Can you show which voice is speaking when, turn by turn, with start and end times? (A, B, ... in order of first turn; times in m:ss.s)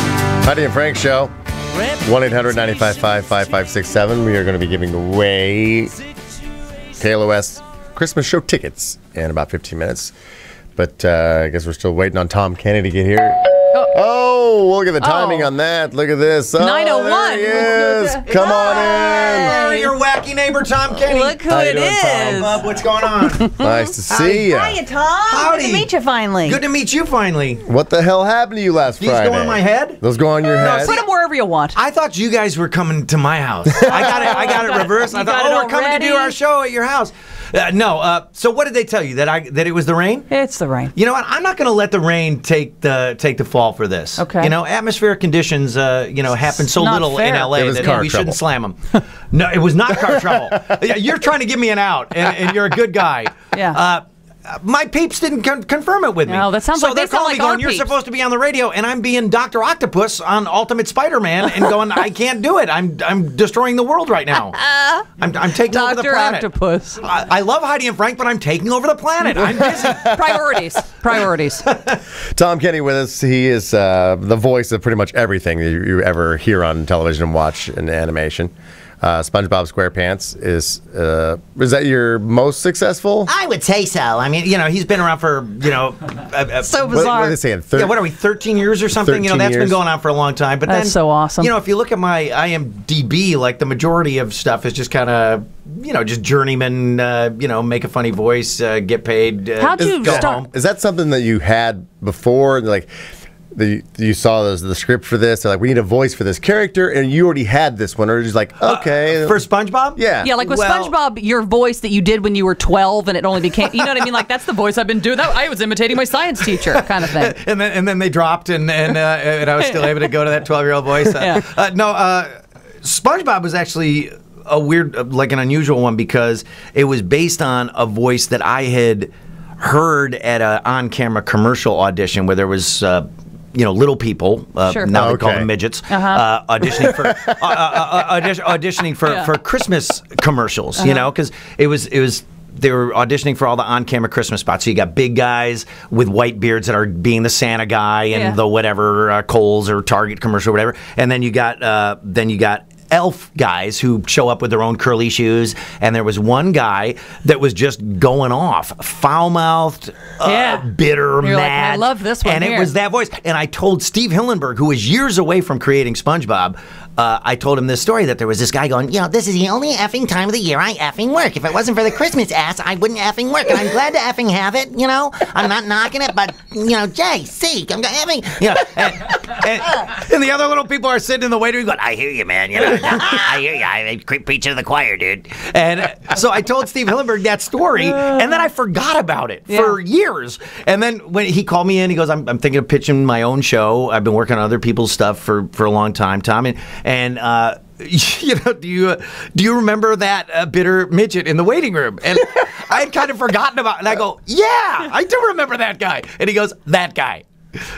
0:00.4-0:01.3 A
0:02.0-0:06.0 A
0:07.0-0:10.1 A
0:10.8-0:19.6 A
0:15.0-0:15.5 B
0:16.6-0:19.9 B
0:18.3-0:23.6 C
0:21.0-0:26.6 B
0:23.6-0:24.8 A
0:24.1-0:24.5 C
0:25.3-0:25.9 C
0:26.4-0:27.6 C
0:27.7-0:31.0 A
0:29.0-0:30.0 C
0:30.6-0:31.0 C
0:30.6-0:31.8 B
0:31.8-0:40.3 C
0:33.8-0:36.4 B
0:40.3-0:40.9 B
0:40.9-0:48.8 C
0:44.2-0:44.5 B
0:46.5-0:48.1 B
0:47.6-0:48.4 A
0:49.3-1:04.6 C
0:50.0-0:50.8 A
0:53.5-0:53.8 B
0:56.3-0:57.9 B
1:04.3-1:07.0 B
1:05.2-1:06.5 C
1:07.0-1:10.3 C
1:09.2-1:11.6 B
1:09.5-1:10.2 A
1:11.7-1:12.0 C
1:12.3-1:23.3 A
1:23.2-1:40.5 C
1:26.6-1:27.4 B
1:26.9-1:28.0 A
1:29.0-1:29.8 A
1:30.7-1:31.5 B
1:39.6-1:40.4 B
1:39.8-1:42.9 A
1:43.5-1:49.4 A
1:48.6-1:50.9 C
1:50.0-1:50.3 A
1:50.2-1:57.4 B
1:56.5-2:02.3 C
1:59.6-2:00.1 B
2:01.0-2:01.5 B
2:02.8-3:27.3 C
2:14.6-2:14.9 B
2:15.0-2:15.5 A
2:15.9-2:16.2 B
2:16.7-2:17.8 A
2:19.0-2:19.3 B
2:20.8-2:21.1 B
2:28.1-2:28.4 B
2:40.2-2:40.7 B
2:41.2-2:42.7 B
3:07.8-3:08.3 B
3:09.5-3:09.8 B